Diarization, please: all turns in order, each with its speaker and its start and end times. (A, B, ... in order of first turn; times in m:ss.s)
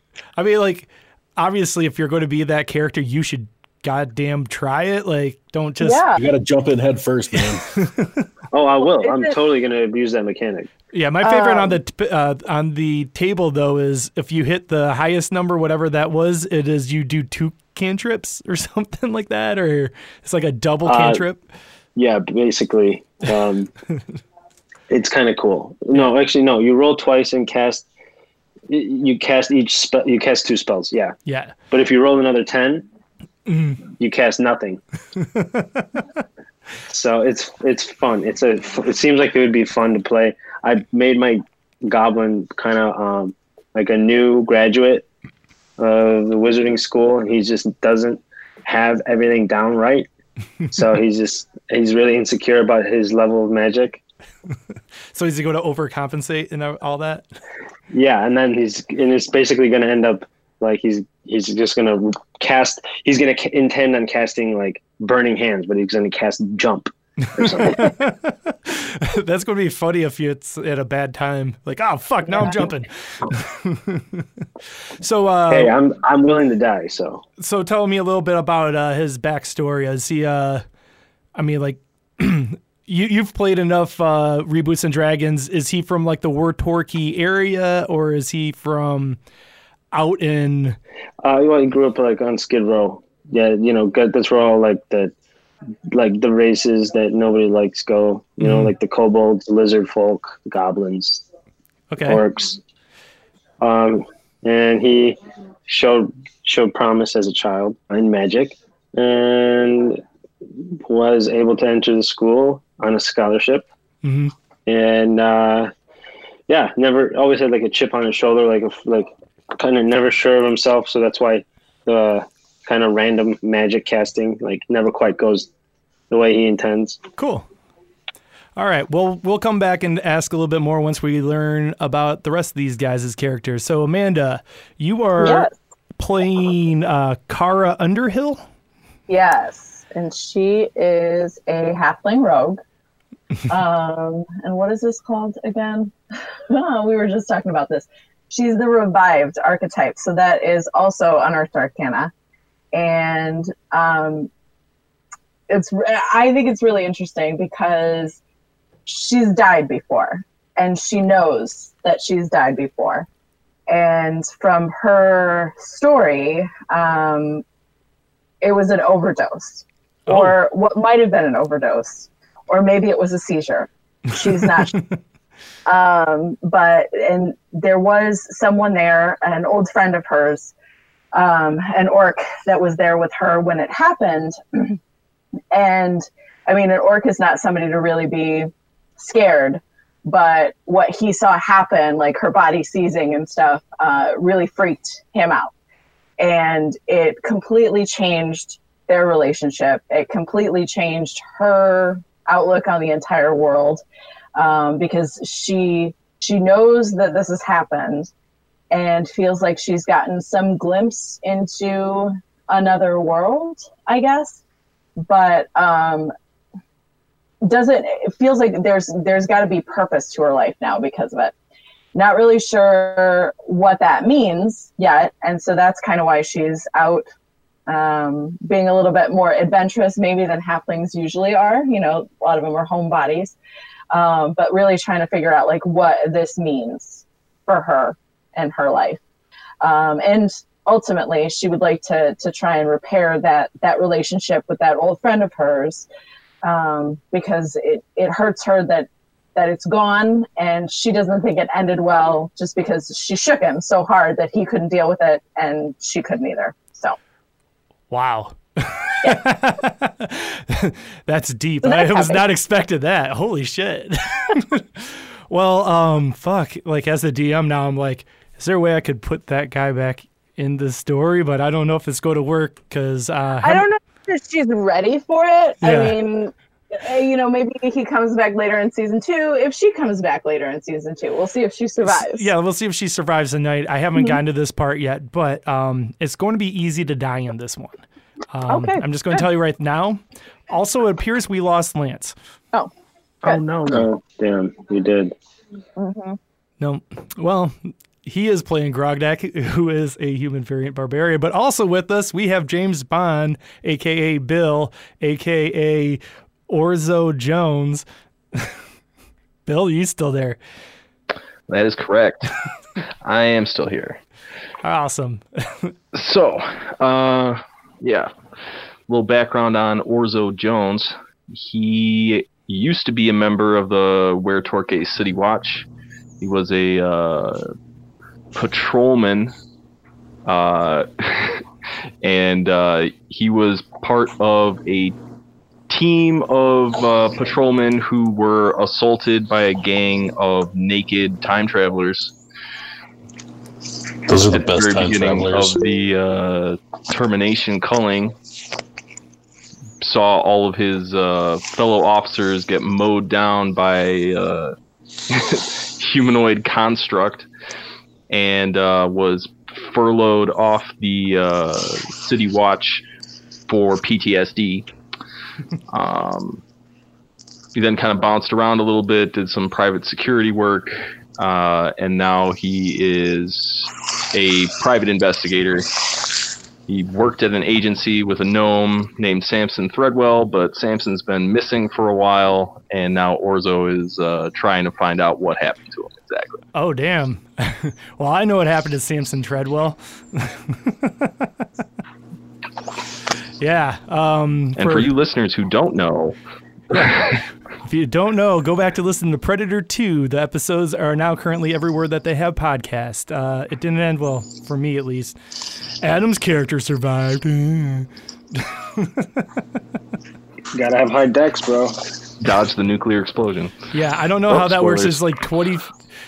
0:00.4-0:06.0 A
0:05.8-0:06.2 B
0:06.2-0:07.6 C
0:07.7-0:08.2 A
0:08.5-0:10.7 D
0:09.0-0:09.3 B
0:10.9-0:21.4 A
0:11.2-0:11.8 B
0:20.8-0:21.2 D
0:22.0-0:23.7 D
0:24.9-0:27.9 D
0:28.7-0:31.2 D
0:31.3-0:31.6 A
0:31.7-0:32.8 D
0:33.5-0:33.8 A
0:34.0-0:34.8 D
0:35.2-0:35.9 A
0:36.9-0:45.1 D
0:45.8-0:50.1 D
0:50.7-0:54.0 D
0:55.1-0:57.2 A
0:57.9-1:08.0 D
1:07.4-1:14.4 A
1:15.0-1:15.8 A
1:15.5-1:17.2 D
1:17.4-1:20.6 A
1:21.4-1:29.2 A
1:29.9-1:30.8 A
1:31.2-1:35.1 D
1:35.9-1:41.2 D
1:38.4-1:38.7 A
1:41.9-1:42.2 A
1:42.0-1:42.6 D
1:43.6-1:50.0 D
1:50.8-1:53.7 D
1:54.0-1:54.3 A
1:54.7-1:55.7 D
1:56.5-2:05.5 D
2:06.1-2:07.0 D
2:07.2-2:07.5 A
2:08.6-2:18.4 A
2:15.2-2:15.5 B
2:19.1-2:22.6 B
2:23.5-2:26.0 B
2:26.5-2:32.1 B
2:32.7-2:34.3 B
2:35.5-2:38.2 B
2:38.9-2:43.1 B
2:43.7-2:47.4 B
2:48.4-2:54.8 B
2:50.1-2:50.4 A
2:54.3-2:54.8 A
2:55.7-3:00.5 B
3:01.1-3:04.8 B
3:05.5-3:15.5 B
3:16.2-3:23.8 B
3:24.4-3:28.1 B
3:28.7-3:34.4 B
3:35.0-3:36.1 B
3:37.4-3:41.3 B
3:41.9-3:47.0 B
3:47.7-3:53.4 B
3:53.9-3:59.0 B
3:59.6-4:05.9 B
4:06.4-4:17.0 B
4:17.9-4:33.6 A
4:21.6-4:22.2 B
4:33.4-4:42.3 B
4:35.6-4:36.0 A
4:41.8-4:52.2 A
4:48.5-4:48.8 B
4:53.2-4:55.2 D
4:55.8-4:56.2 B
4:56.6-5:08.6 A
5:09.5-5:10.4 A
5:11.5-5:12.3 E
5:13.0-5:14.0 E
5:14.6-5:15.7 A
5:15.9-5:18.1 E
5:18.9-5:25.7 E
5:26.2-5:27.5 E
5:28.3-5:29.4 E
5:30.2-5:31.4 E
5:32.0-5:35.0 E
5:35.7-5:42.1 E
5:44.1-5:45.6 C
5:44.3-5:48.2 E
5:49.8-5:54.6 E
5:55.1-5:57.3 E
5:58.1-6:02.8 E
6:03.5-6:04.7 E
6:05.7-6:06.4 E
6:07.5-6:15.7 E
6:16.7-6:26.4 E
6:26.5-6:31.5 A
6:33.4-6:34.9 A
6:34.6-6:36.2 E
6:36.7-6:37.2 E
6:36.7-6:45.2 A
6:45.8-6:49.3 A
6:50.5-6:51.8 D
6:52.2-6:53.6 E
6:53.7-6:55.7 A
6:54.3-6:55.0 E